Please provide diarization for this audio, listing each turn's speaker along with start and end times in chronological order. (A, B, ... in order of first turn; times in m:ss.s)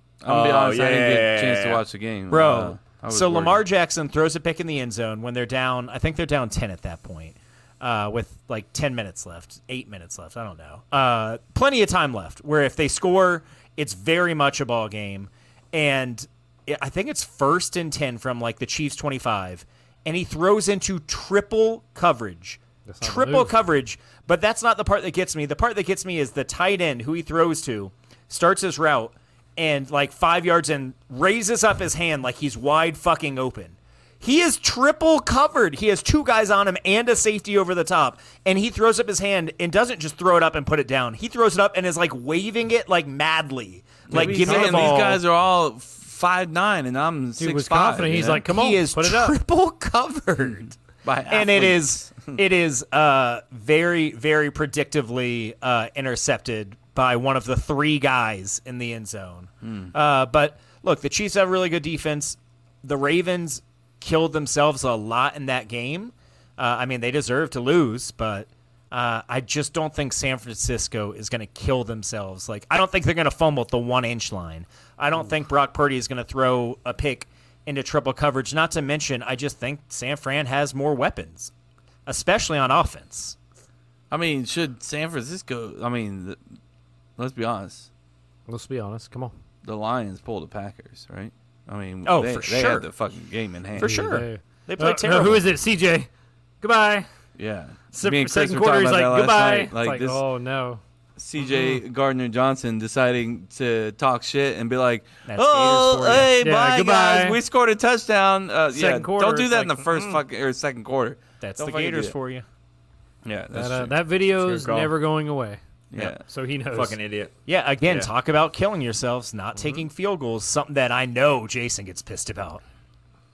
0:00.2-0:03.6 A
0:00.2-0:01.8 B
0:02.3-0:45.2 C
0:22.8-0:23.5 D
0:44.1-0:48.4 A
0:44.1-0:45.0 D
0:47.4-0:49.4 D
0:48.1-0:50.8 C
0:51.0-0:52.4 A
0:51.3-1:21.5 C
0:59.6-0:59.9 A
1:22.0-1:23.4 C
1:24.1-1:26.4 A
1:27.2-1:27.9 A
1:28.5-1:29.3 D
1:29.6-1:34.2 A
1:32.0-1:32.9 C
1:33.8-1:35.4 C
1:33.8-1:36.1 D
1:36.6-1:37.1 D
1:37.4-1:40.2 A
1:37.9-1:40.8 D
1:41.2-1:52.1 A
1:45.3-1:46.3 C
1:46.4-1:47.4 D
1:48.7-1:50.2 D
1:51.4-1:52.4 C
1:53.2-1:54.0 A
1:53.5-1:55.6 D
1:54.3-1:54.9 B
1:55.9-1:56.2 A
1:56.1-1:57.0 D
1:56.7-1:57.3 B
1:57.5-2:02.6 C